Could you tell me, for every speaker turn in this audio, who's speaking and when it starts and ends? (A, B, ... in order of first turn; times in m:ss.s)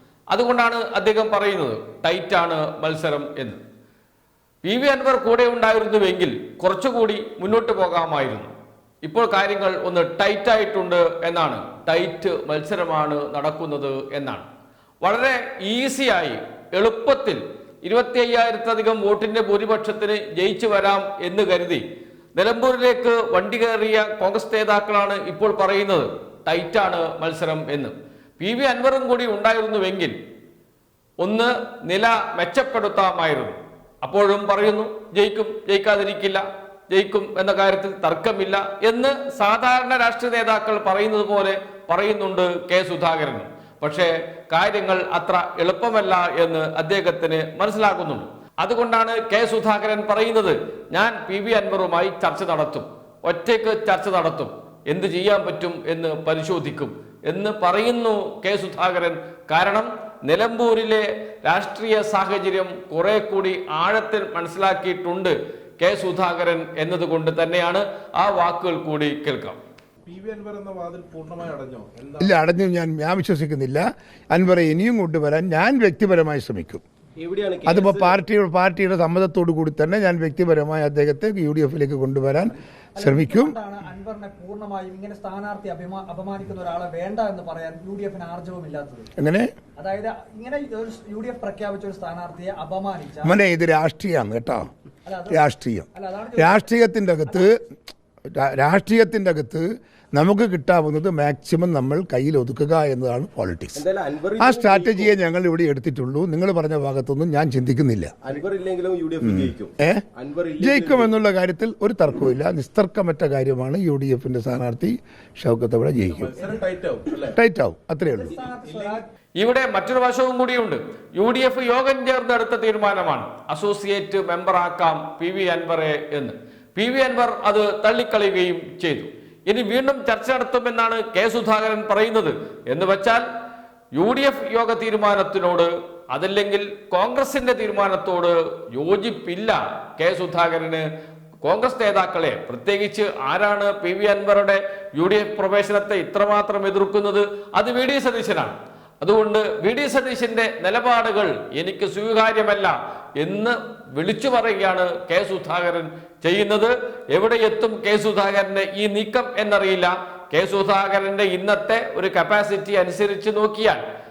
0:00.3-0:03.6 A
0:04.6-0:08.5 A
0:09.0-0:14.5 A
0:15.0-0:21.8 A
0:22.4-0:30.2 A
0:31.2-1:09.6 A
1:10.0-1:12.4 B
1:12.2-1:16.8 C
1:17.2-1:18.2 D
1:17.6-1:23.5 C
1:23.0-1:29.1 E
1:29.2-1:29.5 C
1:29.8-1:33.4 E
1:33.2-1:34.7 C
1:35.0-1:36.7 E
1:35.3-1:37.6 C
1:38.3-1:43.8 C
1:43.7-1:45.2 D
1:44.4-1:48.1 C
1:48.2-1:51.1 D
1:49.2-1:50.0 C
1:50.6-1:56.3 C
1:56.1-1:57.4 B
1:57.2-1:58.4 C
1:58.1-1:59.0 E
1:58.6-1:59.0 B
1:59.4-2:13.2 A
2:13.9-2:20.9 A
2:21.4-2:43.8 A